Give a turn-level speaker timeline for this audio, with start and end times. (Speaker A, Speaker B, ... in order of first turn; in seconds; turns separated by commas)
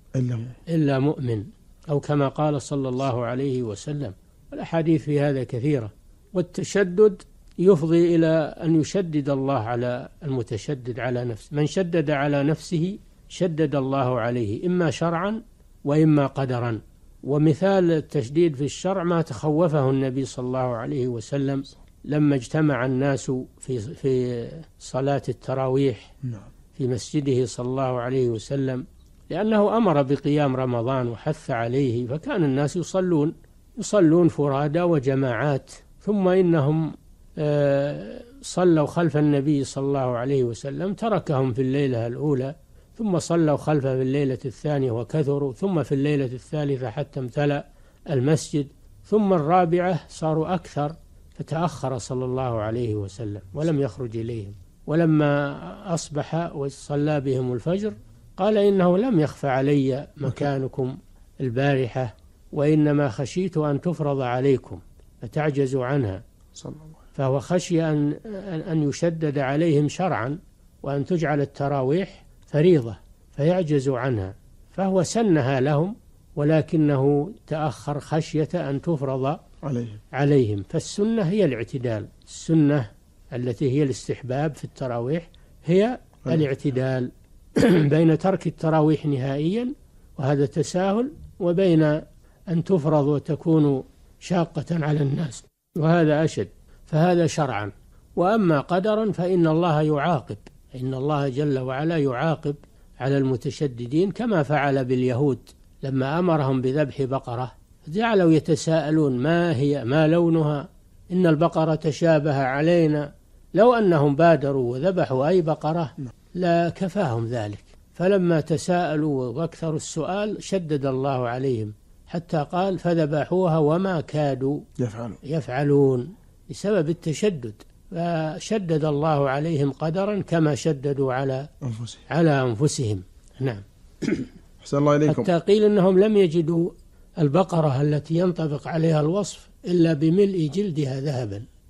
Speaker A: 0.1-0.6, Speaker B: 0.7-26.1, Speaker B: 26.8-66.2, Speaker A: 66.6-66.9, Speaker B: 67.2-79.4, Speaker A: 79.6-80.0, Speaker B: 80.1-124.6, Speaker A: 124.8-125.2, Speaker B: 125.2-131.5, Speaker A: 131.6-132.0, Speaker B: 132.1-134.3, Speaker A: 134.6-135.3, Speaker B: 135.1-141.4